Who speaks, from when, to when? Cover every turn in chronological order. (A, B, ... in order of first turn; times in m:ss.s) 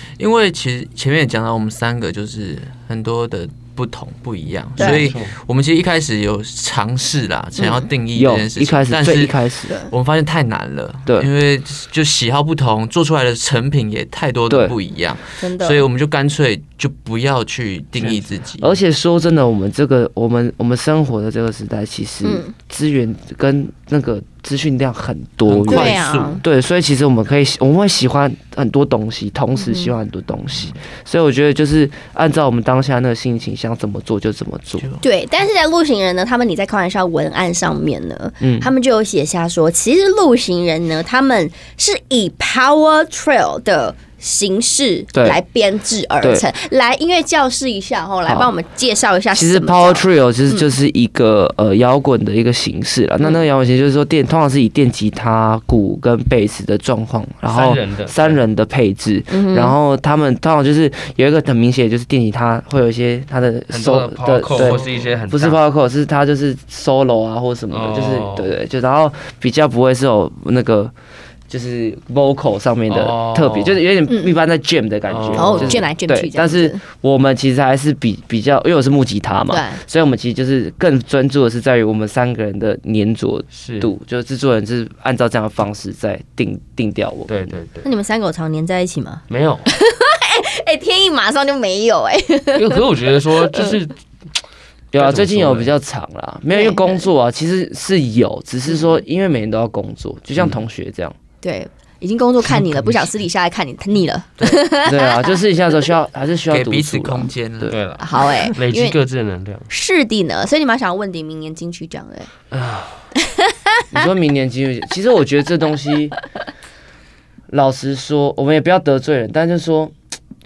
0:00.2-0:18.8 A
0:04.8-0:05.1 B
0:04.8-0:05.3 C
0:07.6-0:07.9 B
0:08.1-0:09.7 D
0:15.4-0:15.8 B
0:18.0-0:34.9 D
0:22.2-0:22.5 B
0:25.4-0:26.4 C
0:25.7-0:26.4 B
0:29.6-0:29.9 B
0:35.0-0:50.7 B
0:38.4-0:38.7 D
0:45.1-0:45.4 D
0:46.2-0:46.5 D
0:48.2-0:48.5 D
0:49.3-1:10.9 D
0:57.4-0:58.4 C
0:59.3-0:59.8 B
1:03.7-1:05.6 C
1:07.7-1:08.5 C
1:11.5-1:27.6 D
1:12.9-1:13.8 C
1:14.1-1:14.4 B
1:15.1-1:15.8 C
1:15.4-1:16.8 B
1:19.5-1:19.8 B
1:23.5-1:23.9 C
1:27.3-1:27.9 C
1:27.8-1:33.8 B
1:29.3-1:29.7 C
1:32.5-1:34.0 C
1:34.9-1:41.2 D
1:34.9-1:35.7 C
1:36.5-1:37.1 B
1:38.7-1:39.0 B
1:41.4-1:45.4 B
1:42.5-1:43.0 C
1:44.8-1:47.8 D
1:46.5-1:47.8 A
1:47.7-1:49.7 C
1:48.0-1:49.0 B
1:49.7-1:52.3 B
1:52.5-1:52.9 C
1:53.4-1:54.1 B
1:53.9-1:56.2 D
1:57.5-1:59.9 D